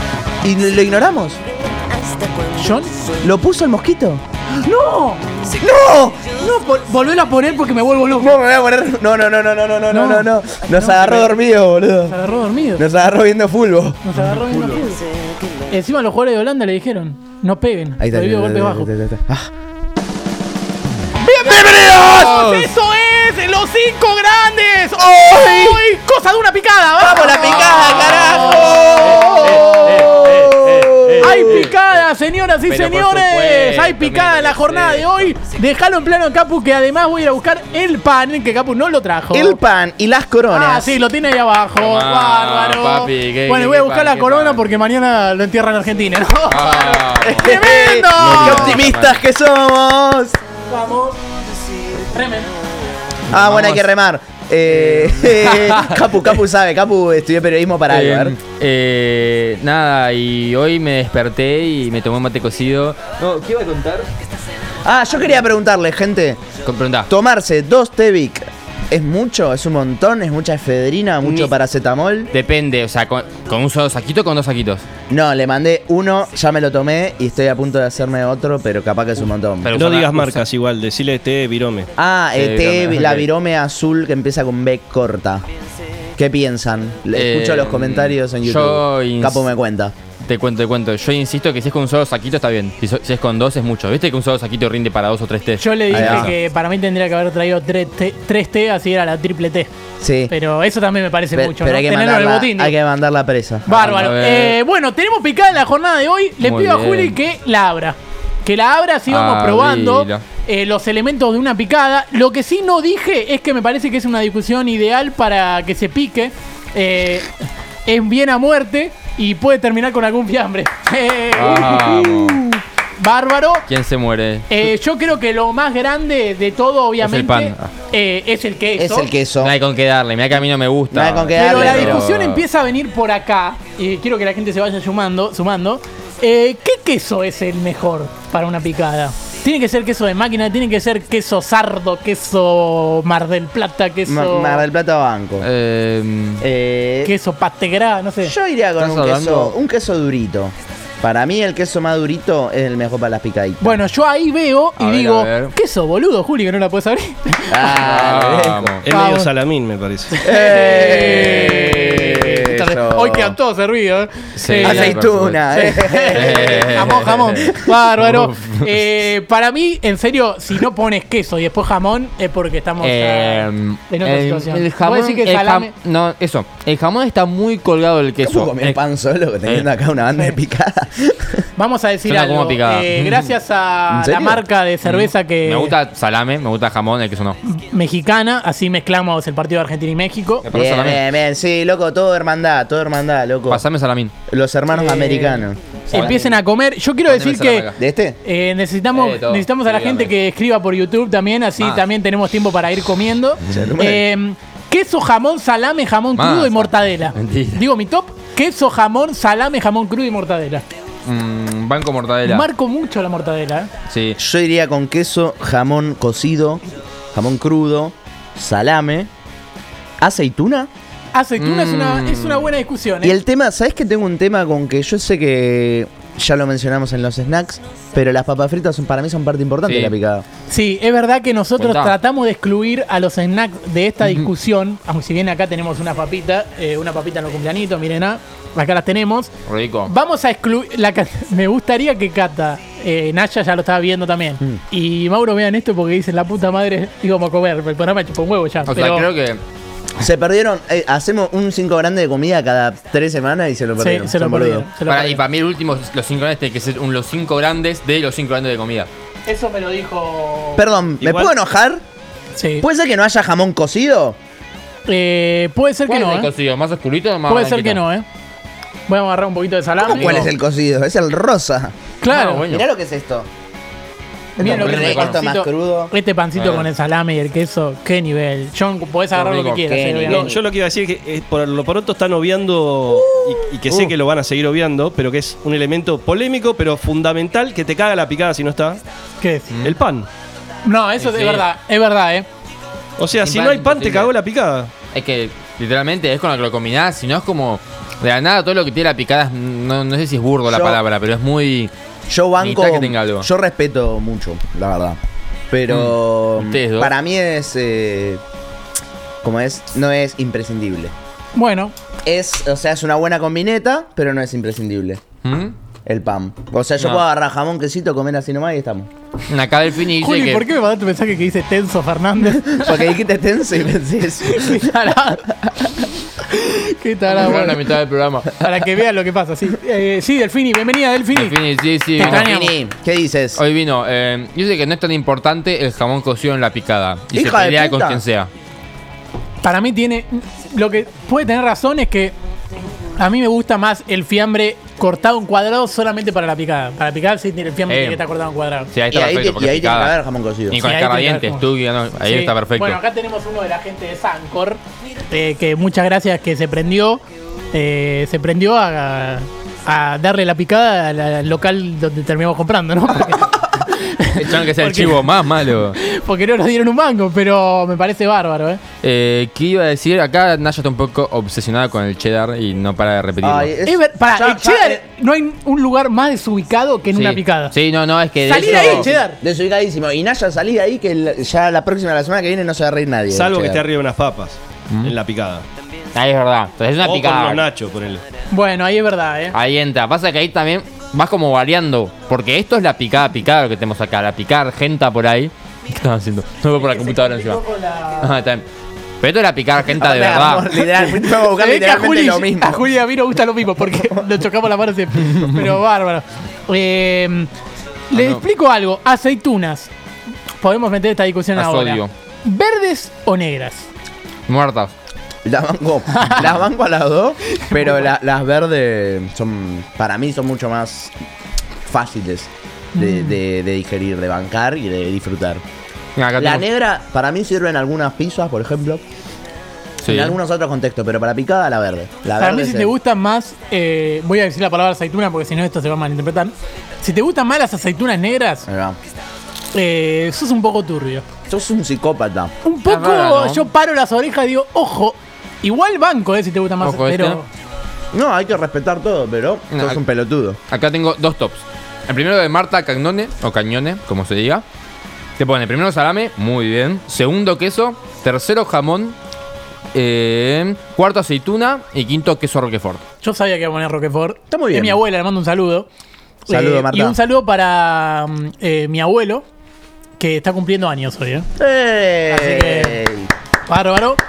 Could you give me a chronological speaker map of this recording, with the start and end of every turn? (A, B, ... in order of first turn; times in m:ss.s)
0:00.4-0:01.4 A
0:02.5-0:02.9 B
0:03.2-0:04.2 A
0:04.6-0:05.3 B
0:05.6-0:06.2 A
0:06.3-0:08.4 B
0:08.1-0:12.1 A
0:09.9-0:11.3 B
0:12.0-0:12.8 B
0:12.8-0:14.0 A
0:14.0-0:15.0 B
0:14.2-0:14.8 C
0:15.7-0:18.9 B
0:18.0-0:19.5 A
0:21.2-0:29.6 B
0:21.4-0:22.7 C
0:25.0-0:25.8 A
0:27.0-0:31.7 A
0:27.3-0:31.7 C
0:31.2-0:39.6 B
0:32.6-0:35.4 C
0:39.3-0:41.0 A
0:40.5-0:48.8 B
0:41.8-0:44.6 C
0:46.5-0:49.2 C
0:47.2-0:50.4 A
0:50.7-0:51.2 B
0:51.9-0:52.5 B
0:53.3-0:53.9 C
0:53.3-0:58.4 A
0:54.7-0:56.2 C
0:57.9-1:04.1 C
1:04.8-1:06.4 A
1:06.6-1:07.1 C
1:07.1-1:12.3 A
1:11.2-1:11.5 D
1:12.3-1:14.8 C
1:15.1-1:19.7 A
1:19.6-1:20.4 C
1:19.7-1:21.9 D
1:22.0-1:25.4 A
1:22.3-1:23.3 C
1:26.2-1:29.9 A
1:27.1-1:29.4 C
1:30.2-1:36.3 C
1:35.6-1:39.7 B
1:35.9-1:36.3 A
1:40.0-1:40.3 A
1:40.3-1:42.8 B
1:41.3-1:43.8 A
1:43.6-1:57.3 B
1:43.7-1:44.6 C
1:46.4-1:47.2 C
1:49.1-1:50.2 C
1:57.8-2:03.7 B
2:01.3-2:02.4 C
2:03.7-2:04.5 C
2:04.5-2:09.1 B
2:07.0-2:07.7 C
2:08.8-2:09.6 A
2:09.4-2:12.4 C
2:10.9-2:12.1 A
2:11.3-2:24.6 B
2:24.0-2:25.5 A
2:25.4-2:26.4 C
2:26.4-2:27.1 A
2:27.0-2:28.3 B
2:28.2-2:33.8 A
2:28.8-2:29.6 C
2:33.6-2:37.9 B
2:34.8-2:35.5 C
2:37.5-2:38.7 A
2:37.8-2:38.8 C
2:38.8-2:40.2 D
2:38.9-2:39.3 B
2:40.1-2:55.7 B
2:40.2-2:43.4 A
2:44.4-2:45.4 C
2:44.6-2:47.7 A
2:46.1-2:48.8 C
2:52.8-2:58.8 C
2:58.2-3:01.4 A
2:59.4-2:59.7 C
3:00.1-3:00.4 B
3:01.6-3:05.7 B
3:02.0-3:03.3 C
3:03.9-3:04.4 A
3:04.8-3:07.4 C
3:07.4-3:10.4 B
3:10.4-3:11.0 C
3:10.5-3:13.6 A
3:13.5-3:14.1 C
3:14.3-3:16.4 A
3:14.7-3:17.7 B
3:15.9-3:16.3 C
3:17.0-3:17.8 C
3:17.8-3:18.2 A
3:18.2-3:30.6 B
3:18.9-3:20.1 C
3:23.4-3:24.1 A
3:26.2-3:27.6 C
3:31.0-3:32.5 C
3:32.2-3:33.7 B
3:33.9-3:34.2 C
3:34.2-3:36.6 A
3:37.1-3:39.1 A
3:40.0-3:40.7 A
3:41.1-3:43.2 B
3:41.4-3:42.5 C
3:43.0-3:50.2 A
3:49.6-3:49.9 C
3:50.5-3:59.3 B
3:51.6-3:52.0 C
3:59.4-3:59.9 C
3:59.8-4:09.1 B
4:08.6-4:09.4 C
4:10.0-4:14.7 A
4:13.8-4:15.2 B
4:14.8-4:18.9 C
4:19.2-4:20.7 B
4:20.6-4:21.8 A
4:21.0-4:21.3 D
4:22.3-4:22.7 B
4:22.6-4:24.2 A
4:24.8-4:26.3 B
4:25.8-4:27.8 C
4:27.3-4:28.0 B
4:28.9-4:30.3 B
4:29.8-4:31.7 A
4:32.0-4:32.4 B
4:32.1-4:32.6 C
4:32.5-4:33.3 A
4:34.4-4:35.9 A
4:34.4-4:40.3 B
4:34.4-4:35.2 C
4:36.4-4:36.7 C
4:39.1-4:39.6 C
4:39.6-4:40.4 A
4:40.1-4:48.8 D
4:42.9-4:43.5 B
4:49.2-4:49.5 B
4:49.5-4:49.8 C
4:49.6-4:50.1 D
4:50.6-4:52.2 B
4:51.0-4:51.5 C
4:53.0-4:54.7 D
4:53.2-4:54.1 C
4:54.9-5:01.7 C
5:00.4-5:00.8 A
5:02.1-5:05.0 A
5:02.4-5:03.3 C
5:05.5-5:08.2 A
5:05.7-5:06.9 C
5:09.2-5:10.9 A
5:11.3-5:11.7 B
5:12.0-5:15.0 A
5:15.2-5:15.6 C
5:15.8-5:18.9 A
5:16.8-5:17.0 C
5:19.3-5:20.4 C
5:19.9-5:22.9 B
5:22.2-5:24.7 A
5:24.2-5:25.3 B
5:26.2-5:27.8 B
5:27.1-5:28.4 C
5:28.3-5:31.4 B
5:31.1-5:32.3 C
5:32.0-5:32.6 B
5:32.0-5:33.4 A
5:33.4-5:38.3 C
5:37.1-5:38.0 A
5:39.4-5:42.1 B
5:43.0-5:48.7 B
5:47.7-5:48.0 C
5:48.7-5:49.9 C
5:48.9-5:50.6 A
5:50.5-5:52.8 C
5:50.6-5:51.4 B
5:52.0-5:57.0 B
5:57.5-6:08.6 B
6:04.1-6:05.8 C
6:08.8-6:13.5 C
6:13.2-6:14.8 A
6:13.6-6:17.6 B
6:16.9-6:18.9 C
6:18.2-6:19.2 B
6:18.4-6:23.6 A
6:23.1-6:25.4 D
6:24.7-6:24.9 C
6:25.9-6:27.5 C
6:26.8-6:28.0 D
6:28.3-6:29.4 B
6:29.3-6:37.4 C
6:36.6-6:38.1 B
6:38.0-6:38.4 C
6:39.0-6:40.5 C
6:39.8-6:42.6 A
6:40.6-6:47.3 B
6:43.7-6:44.1 A
6:47.9-6:49.7 B
6:47.9-6:48.2 C
6:50.4-6:53.7 B
6:51.3-6:51.9 C
6:54.3-6:54.7 C
6:55.2-7:00.9 A
6:56.0-6:56.3 B
6:57.3-6:57.9 B
7:01.7-7:05.4 A
7:02.7-7:03.2 B
7:06.0-7:06.4 C
7:06.2-7:08.8 A
7:09.8-7:10.2 C
7:09.8-7:12.7 A
7:12.2-7:18.5 B
7:18.5-7:18.8 A
7:19.5-7:21.0 B
7:21.3-7:22.3 A
7:22.4-7:27.2 B
7:22.6-7:23.5 C
7:26.6-7:27.2 C
7:27.9-7:30.4 A
7:29.5-7:29.8 C
7:30.5-7:34.4 C
7:35.2-7:39.0 C
7:39.7-7:42.8 C
7:43.0-7:45.7 B
7:44.3-7:44.8 A
7:46.3-7:49.2 B
7:46.3-7:47.0 A
7:50.0-7:51.3 B
7:51.4-7:53.1 A
7:52.1-7:52.8 B
7:53.4-7:54.0 B